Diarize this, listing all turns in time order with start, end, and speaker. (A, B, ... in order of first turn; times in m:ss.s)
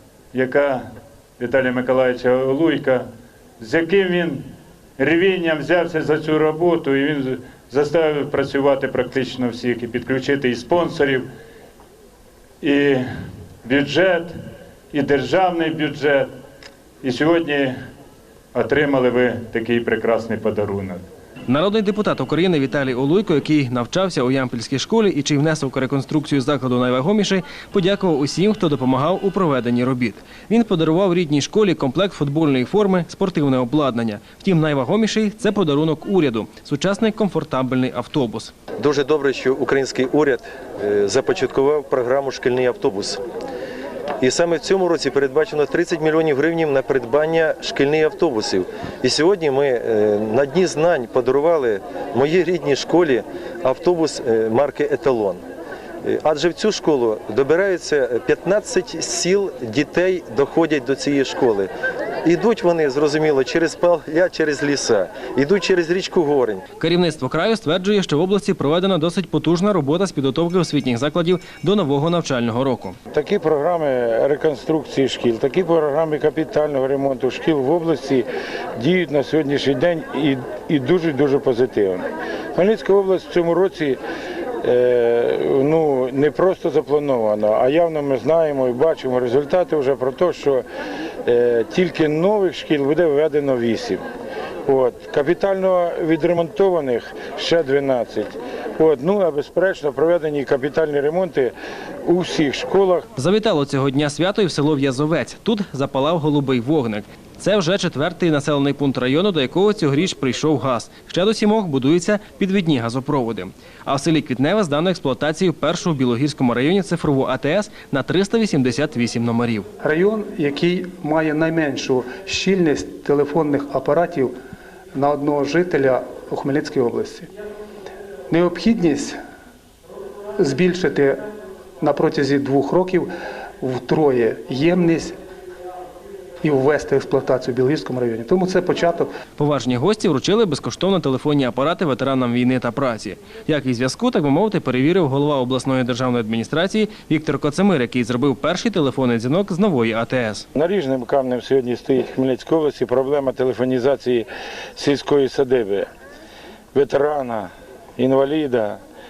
0:00.3-0:00.8 A
0:01.4-0:03.0 A
0:03.6-0:04.4 A
0:05.0-0:11.3 A
0:12.6-0:13.0 A
0:13.6-0:14.3 A
0:14.9-0:16.3 A
0:17.0-0:17.7 A
0:18.6-0:21.0 A
0:21.5-0:38.5 B
0:38.8-0:43.2 C
0:44.2-0:55.4 C
0:56.0-1:01.7 C
1:02.2-1:06.6 C
1:06.8-1:13.0 B
1:13.1-1:18.3 D
1:18.8-1:24.0 D
1:24.6-1:30.6 D
1:31.3-1:34.0 D
1:34.7-1:41.5 D
1:42.0-1:43.1 D
1:43.2-1:59.7 B
1:59.8-2:04.3 E
2:04.9-2:07.3 E
2:08.3-2:09.2 E
2:10.4-2:11.2 E
2:11.8-2:13.1 E
2:13.6-2:15.2 E
2:16.4-2:19.1 E
2:19.4-2:30.5 B
2:30.6-2:35.9 D
2:36.7-2:38.8 D